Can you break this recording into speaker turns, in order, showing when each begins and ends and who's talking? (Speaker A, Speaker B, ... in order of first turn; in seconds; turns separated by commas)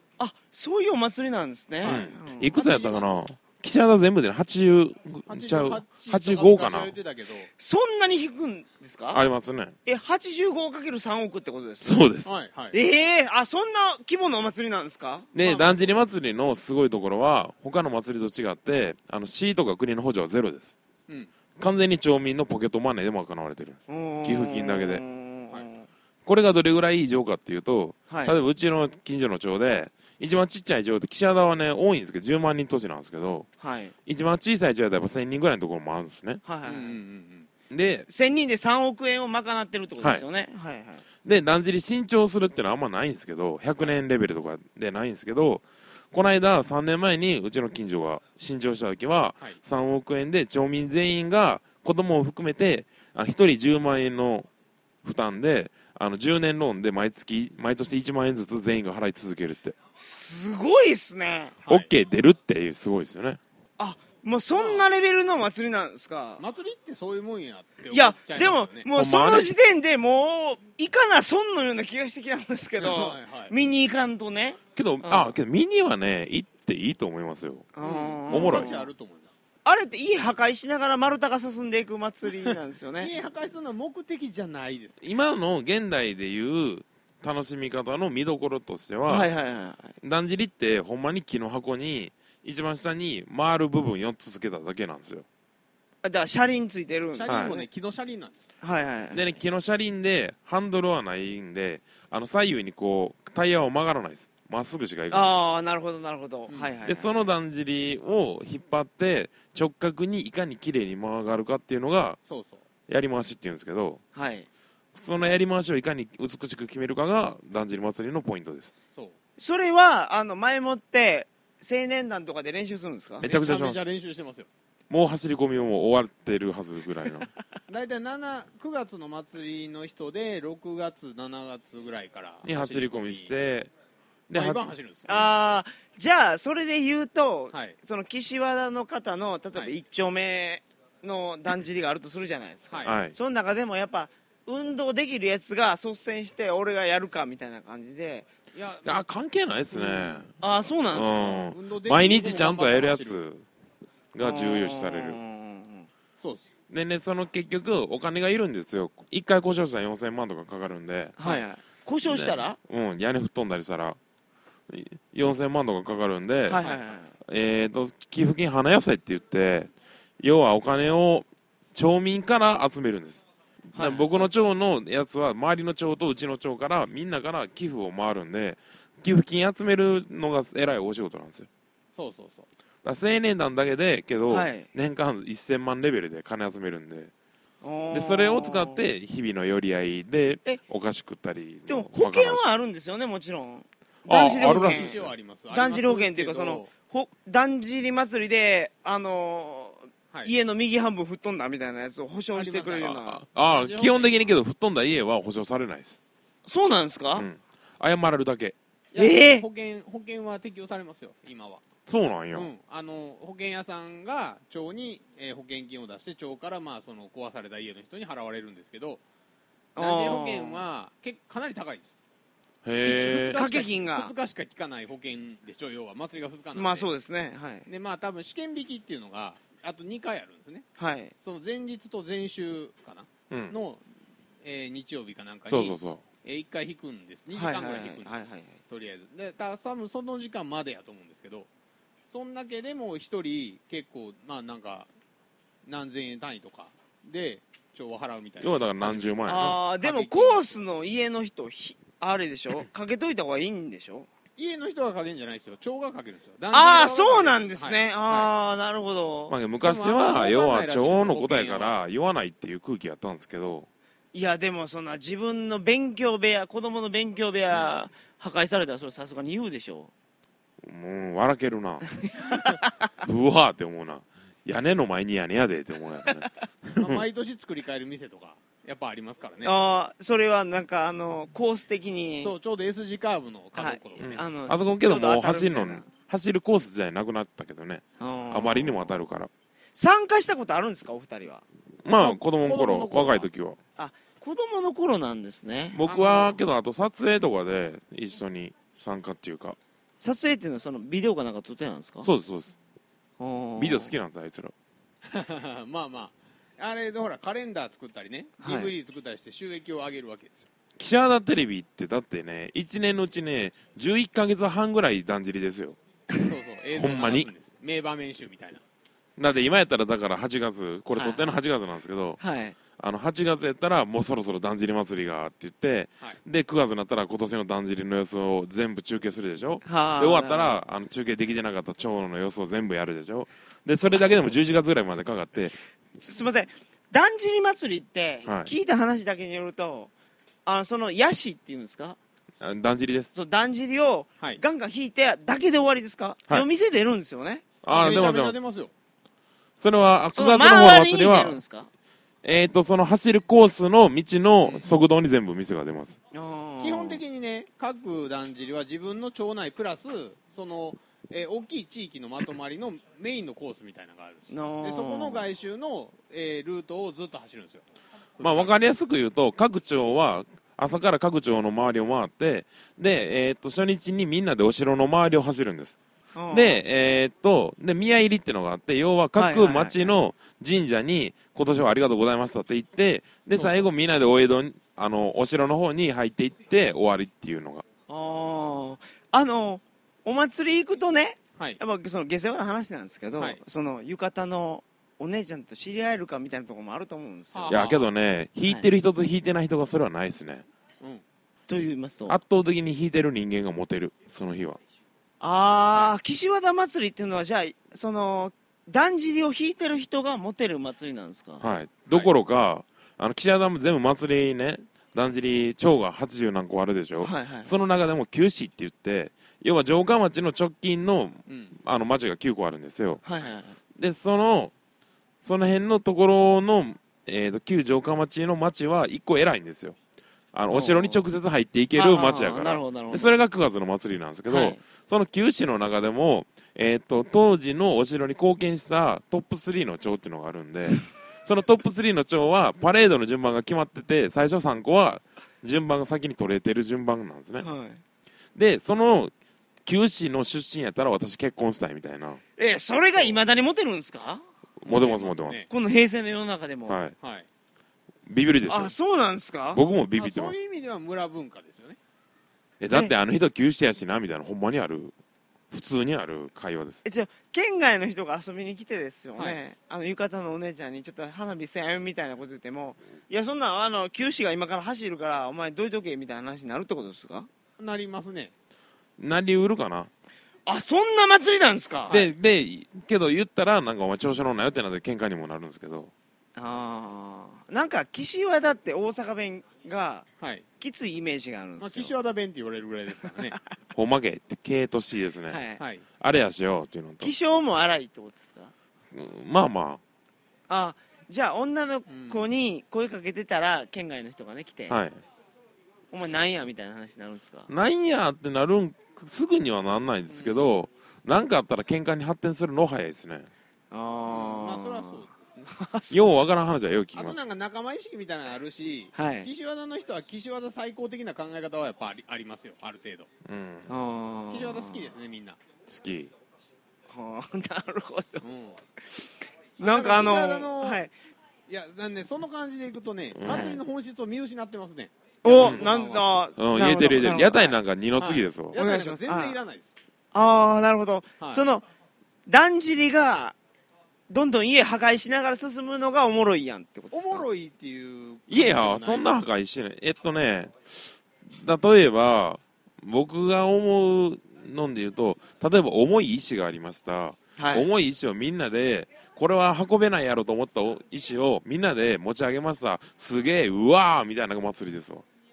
Speaker A: 0.2-2.6, Speaker B: 1.8-3.1, Speaker C: 1.8-6.9, Speaker B: 5.3-7.5, Speaker A: 7.6-9.2, Speaker C: 9.1-9.7, Speaker A: 9.8-12.0, Speaker C: 11.8-12.3, Speaker B: 12.2-12.8, Speaker A: 12.7-15.3, Speaker C: 15.3-20.7, Speaker B: 15.4-16.0, Speaker C: 21.6-25.0, Speaker A: 23.9-25.9, Speaker C: 26.2-33.5, Speaker A: 28.1-28.4, Speaker A: 33.6-33.9, Speaker C: 34.0-36.4, Speaker A: 36.4-37.0, Speaker B: 36.6-37.5, Speaker C: 37.7-38.0, Speaker A: 38.0-41.0, Speaker C: 41.2-54.5, Speaker C: 55.0-59.7, Speaker A: 60.0-61.5, Speaker B: 61.6-61.9, Speaker C: 61.7-63.4, Speaker A: 63.8-66.4, Speaker B: 64.5-64.9, Speaker B: 66.4-68.9, Speaker A: 67.9-75.3, Speaker C: 68.9-69.5, Speaker B: 72.8-73.5, Speaker C: 74.7-77.7, Speaker A: 77.7-78.9, Speaker B: 77.8-79.4, Speaker C: 78.3-78.7, Speaker A: 79.6-83.1, Speaker B: 82.5-85.0, Speaker C: 85.0-89.3, Speaker A: 89.1-89.9, Speaker C: 90.0-95.2, Speaker A: 96.0-97.7, Speaker B: 97.1-98.5, Speaker A: 98.6-99.3, Speaker C: 99.1-105.3, Speaker A: 105.1-107.3, Speaker B: 106.5-106.7, Speaker C: 106.8-112.2, Speaker B: 112.2-112.6, Speaker C: 112.9-114.0, Speaker A: 114.1-114.5, Speaker C: 114.9-118.7, Speaker A: 119.4-123.3, Speaker C: 123.2-123.8, Speaker B: 123.2-124.5, Speaker C: 124.9-127.3, Speaker B: 127.7-133.3, Speaker C: 132.4-133.7, Speaker C: 134.3-134.7, Speaker B: 134.3-135.3, Speaker A: 135.1-148.3, Speaker B: 142.7-142.9, Speaker C: 142.8-143.1, Speaker B: 148.5-149.0, Speaker C: 148.8-150.3, Speaker B: 149.7-153.2, Speaker A: 150.4-151.3, Speaker C: 150.9-153.4, Speaker C: 154.1-155.2, Speaker A: 154.2-155.9, Speaker B: 156.2-156.5, Speaker C: 156.7-161.2, Speaker A: 161.2-162.6, Speaker C: 162.0-164.0, Speaker C: 164.7-166.6, Speaker A: 166.5-167.1, Speaker C: 167.2-181.5, Speaker A: 173.7-174.3, Speaker B: 181.9-182.4, Speaker C: 182.8-187.1, Speaker A: 184.3-184.7, Speaker A: 187.6-188.8, Speaker C: 187.9-192.5, Speaker A: 191.7-195.0, Speaker C: 194.0-195.1, Speaker B: 194.3-196.7, Speaker A: 195.5-203.2, Speaker B: 202.3-204.3, Speaker C: 203.0-206.0, Speaker A: 206.4-207.2, Speaker C: 207.1-208.5, Speaker B: 208.9-211.6, Speaker A: 209.0-209.4, Speaker C: 211.9-212.5, Speaker B: 212.3-219.0, Speaker A: 219.8-220.6, Speaker B: 219.8-222.0, Speaker C: 222.6-223.4, Speaker B: 222.8-226.9, Speaker A: 223.1-224.1, Speaker A: 226.5-227.7, Speaker B: 227.7-230.7, Speaker A: 230.8-231.1, Speaker B: 231.2-233.8, Speaker C: 233.3-233.6, Speaker B: 234.4-241.5, Speaker C: 235.5-236.0, Speaker A: 237.3-238.6, Speaker B: 242.1-244.9, Speaker B: 245.7-250.6, Speaker C: 248.4-249.6, Speaker A: 249.2-254.1, Speaker B: 254.4-258.3, Speaker A: 256.5-259.4, Speaker C: 259.3-263.7, Speaker B: 259.6-261.8, Speaker A: 264.1-269.9, Speaker C: 270.6-271.9, Speaker A: 272.1-272.7, Speaker C: 273.0-277.0, Speaker B: 276.8-279.5, Speaker A: 279.4-282.3, Speaker B: 282.2-284.2, Speaker A: 283.5-285.9, Speaker C: 284.0-289.3, Speaker A: 288.0-288.9, Speaker A: 289.8-291.4, Speaker C: 291.8-293.6, Speaker B: 292.0-293.3, Speaker A: 293.8-295.8, Speaker C: 295.7-299.6, Speaker B: 295.9-296.4, Speaker A: 300.0-302.1, Speaker C: 302.0-302.6, Speaker A: 303.2-303.9, Speaker C: 303.6-304.5, Speaker B: 305.1-310.5, Speaker A: 308.4-308.7, Speaker C: 310.8-315.8, Speaker B: 316.2-318.6, Speaker C: 316.7-317.3, Speaker C: 319.2-322.2, Speaker A: 320.9-321.3, Speaker A: 322.2-322.6, Speaker C: 322.8-335.6, Speaker A: 329.6-330.6, Speaker A: 336.0-339.9, Speaker C: 338.2-338.5, Speaker A: 340.4-342.0, Speaker C: 342.4-343.1, Speaker A: 343.1-347.4, Speaker C: 347.6-348.4, Speaker B: 347.7-348.7, Speaker C: 349.6-351.4, Speaker A: 350.1-351.7, Speaker C: 352.2-356.0, Speaker B: 354.4-354.7, Speaker A: 356.1-357.0, Speaker B: 356.6-367.6, Speaker A: 364.3-365.3, Speaker B: 368.2-368.5, Speaker C: 368.2-375.8, Speaker A: 376.1-376.6, Speaker C: 376.3-387.6, Speaker A: 379.1-379.9, Speaker B: 383.4-383.6, Speaker A: 387.9-397.6, Speaker B: 397.3-397.9, Speaker C: 397.5-400.4, Speaker A: 401.5-402.2, Speaker C: 402.1-404.6, Speaker A: 405.2-411.4, Speaker C: 411.4-423.0, Speaker A: 417.0-417.5, Speaker B: 421.3-421.6, Speaker A: 423.0-423.6, Speaker C: 423.7-424.5, Speaker C: 425.2-429.8, Speaker C: 430.3-447.5, Speaker A: 430.5-431.0, Speaker A: 431.7-433.1, Speaker A: 434.3-434.6, Speaker A: 447.4-447.8, Speaker C: 448.3-449.1, Speaker C: 449.6-452.2, Speaker A: 452.4-454.2, Speaker C: 454.6-455.5, Speaker B: 454.6-455.5, Speaker A: 455.5-456.8, Speaker C: 456.7-456.9, Speaker B: 457.0-457.3, Speaker C: 458.1-458.7, Speaker A: 458.5-459.6, Speaker C: 459.5-460.4, Speaker B: 459.9-461.8, Speaker C: 462.6-464.9, Speaker C: 465.5-466.8, Speaker A: 466.8-477.3, Speaker B: 477.6-478.3, Speaker C: 479.0-479.9, Speaker A: 480.4-482.0, Speaker C: 481.9-485.9, Speaker A: 486.4-490.1, Speaker B: 490.2-490.4, Speaker A: 490.6-491.9, Speaker B: 491.6-493.4, Speaker C: 493.7-495.4, Speaker A: 495.3-495.6, Speaker B: 495.6-495.8, Speaker C: 496.0-497.1, Speaker A: 497.0-498.5, Speaker C: 498.9-499.8, Speaker A: 500.5-504.8, Speaker B: 501.9-502.2, Speaker C: 504.7-505.0, Speaker A: 505.9-507.5, Speaker C: 507.5-513.3, Speaker A: 513.7-516.0, Speaker B: 514.1-515.5, Speaker C: 515.9-517.2, Speaker B: 516.9-523.1, Speaker A: 518.9-519.3, Speaker C: 523.2-523.7, Speaker A: 523.7-524.9, Speaker B: 524.3-525.4, Speaker C: 525.7-526.1, Speaker A: 526.9-528.2, Speaker B: 528.2-528.6, Speaker A: 529.6-530.9, Speaker B: 529.6-530.8, Speaker B: 531.5-536.2, Speaker C: 533.1-533.6, Speaker A: 533.2-533.6, Speaker A: 535.2-537.6, Speaker C: 535.4-535.6, Speaker C: 536.4-538.5, Speaker B: 538.0-539.8, Speaker A: 538.5-539.4, Speaker A: 540.1-541.6, Speaker B: 541.2-541.5, Speaker A: 542.3-543.4, Speaker A: 544.1-547.3, Speaker B: 546.9-549.2, Speaker C: 548.3-565.0, Speaker A: 557.4-557.7